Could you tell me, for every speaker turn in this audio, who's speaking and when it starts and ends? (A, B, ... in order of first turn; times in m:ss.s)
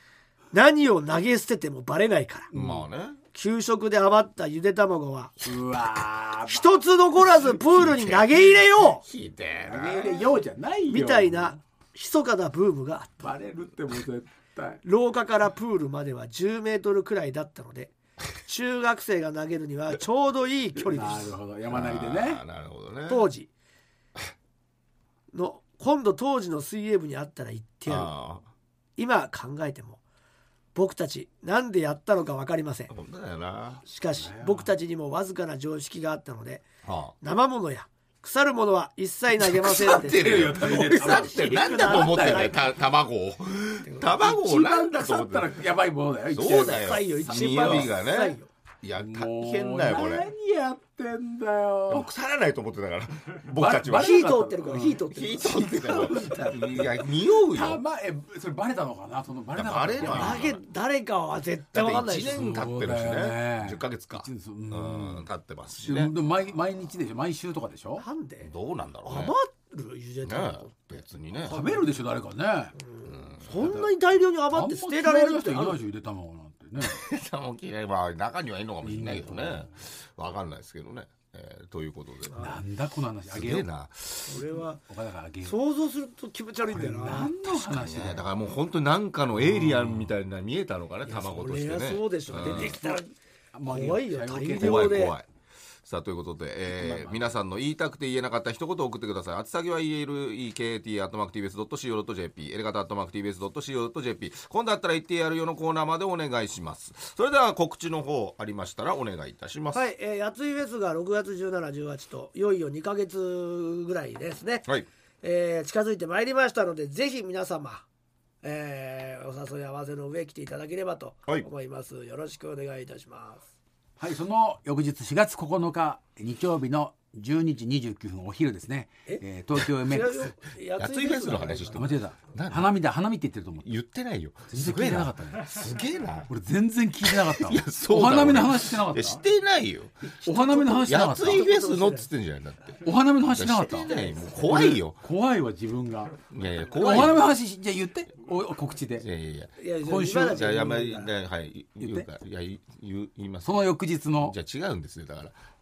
0:00.5-0:02.5 A
0:02.5-0:02.8 B
0:02.5-0:03.2 C
0:03.3-0:05.3 A
0:05.4-0:06.8 B
0:06.5-0:09.0 A
0:07.7-0:10.3 C
0:09.6-0:11.6 B
0:10.9-0:13.3 A
0:13.2-0:14.8 B
0:14.8-0:21.3 A
0:20.9-0:22.4 B
0:21.7-0:23.3 C
0:23.1-0:23.5 A
0:25.3-0:28.1 A
0:27.9-0:28.4 C
0:29.0-0:30.0 A
0:30.7-0:32.9 A
0:32.9-0:33.8 C
0:33.8-0:36.6 A
0:34.2-0:34.7 B
0:36.8-0:37.2 C
0:37.2-0:42.5 A
0:39.6-0:42.5 B
0:39.6-0:45.6 C
0:43.8-0:44.2 A
0:44.2-0:47.9 B
0:46.3-0:50.3 C
0:46.4-0:48.5 A
0:49.0-0:52.1 B
0:51.9-0:54.2 C
0:53.5-1:00.4 B
0:54.0-0:55.8 A
0:55.1-0:57.8 C
0:59.5-1:00.6 C
1:00.0-1:02.4 A
1:01.7-1:06.1 C
1:02.2-1:05.3 B
1:05.8-1:08.0 B
1:08.0-1:08.5 A
1:08.4-1:09.3 C
1:09.0-1:10.9 A
1:10.2-1:11.6 C
1:11.5-1:11.8 A
1:11.5-1:12.8 B
1:12.8-1:15.8 A
1:13.0-1:13.7 C
1:13.6-1:13.9 B
1:14.5-1:17.0 B
1:16.8-1:22.3 C
1:18.8-1:19.7 B
1:22.3-1:22.6 A
1:22.3-1:23.7 B
1:23.3-1:24.4 C
1:24.3-1:24.8 A
1:24.8-1:25.6 B
1:25.4-1:27.3 A
1:26.6-1:28.3 B
1:27.4-1:32.8 C
1:29.4-1:30.1 B
1:31.0-1:33.1 A
1:32.4-1:32.9 B
1:33.5-1:35.1 B
1:33.6-1:35.1 A
1:34.5-1:35.2 C
1:35.8-1:49.8 C
1:36.7-1:37.3 B
1:49.7-1:54.7 A
1:55.2-1:57.8 A
1:58.4-2:03.4 A
2:04.0-2:10.3 B
2:09.8-2:12.0 A
2:10.8-2:12.7 C
2:11.7-2:13.7 B
2:13.6-2:16.3 C
2:14.5-2:15.6 B
2:16.3-2:19.2 B
2:17.0-2:19.9 C
2:20.1-2:22.1 A
2:20.2-2:21.5 B
2:20.8-2:25.0 C
2:22.8-2:29.1 B
2:23.9-2:24.2 A
2:26.3-2:27.3 C
2:29.0-2:29.6 C
2:29.6-2:31.1 A
2:29.8-2:30.6 B
2:30.1-2:33.6 C
2:31.8-2:32.1 B
2:33.4-2:34.4 B
2:34.2-2:35.3 C